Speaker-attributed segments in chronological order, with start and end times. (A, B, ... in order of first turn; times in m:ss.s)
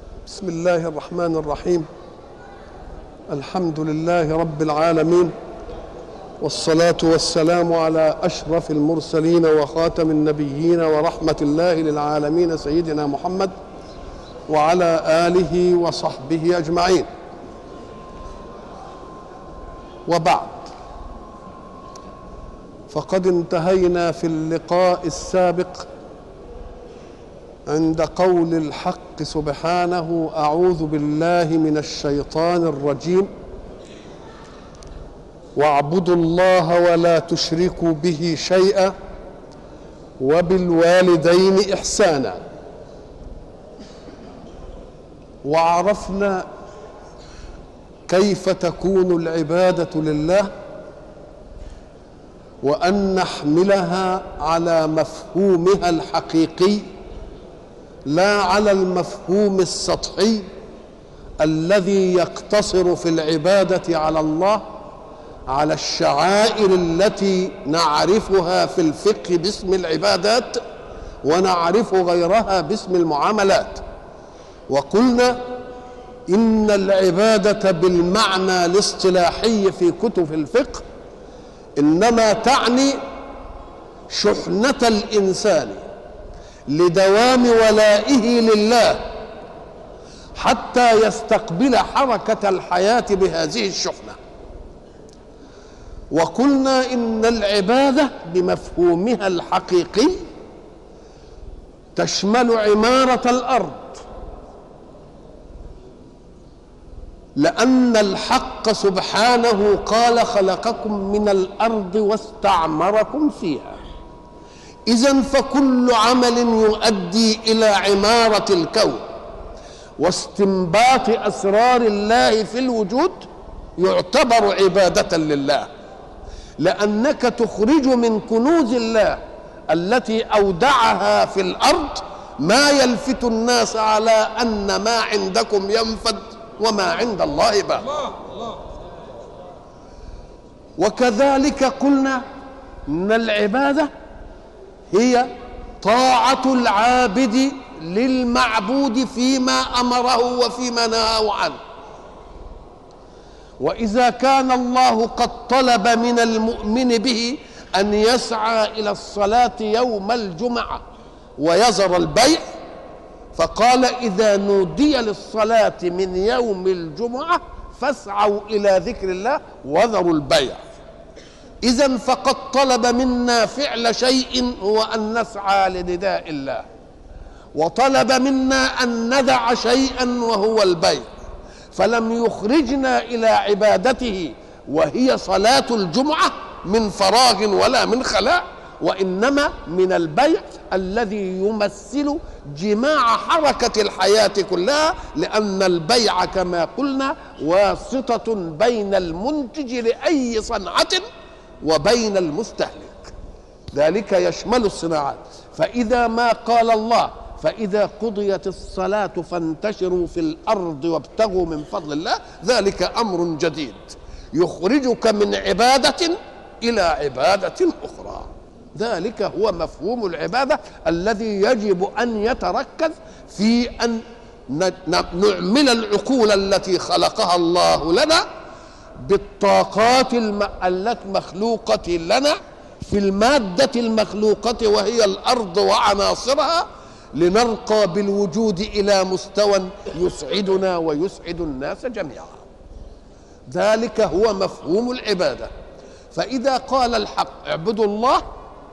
0:00.3-0:01.9 A
0:03.3-0:05.3 A
0:06.4-0:13.5 A
0:14.5-0:17.1 A
0:20.1-0:20.7 A
0:22.9-0:25.9 A
0:27.7-0:33.3 A
0:35.6-0:38.9 A
0:40.2-0:42.4 A
0:45.4-0:46.5 A
0:48.1-0:50.5 A
0:52.6-0:56.9 A
0:58.1-1:00.5 A
1:01.4-1:04.7 A
1:05.5-1:10.6 A
1:11.2-1:13.8 A
1:14.7-1:15.5 A
1:16.3-1:20.8 A
1:21.8-1:23.0 A
1:24.1-1:25.9 A
1:26.7-1:29.1 A
1:30.4-1:34.2 A
1:36.1-1:40.2 A
1:42.0-1:44.0 A
1:47.4-1:53.8 A
1:54.9-1:59.1 A
2:00.0-2:05.7 A
2:06.6-2:18.1 A
2:20.8-2:22.2 A
2:22.9-2:23.9 A
2:24.9-2:31.6 A
2:33.6-2:40.8 A
2:41.4-2:42.4 A
2:43.3-2:50.6 A
2:51.6-2:56.7 A
2:57.5-3:01.1 A
3:01.7-3:21.0 A
3:21.6-3:23.1 A
3:23.7-3:48.2 A
3:49.0-4:02.4 A
4:03.5-4:05.5 A
4:06.1-4:08.2 A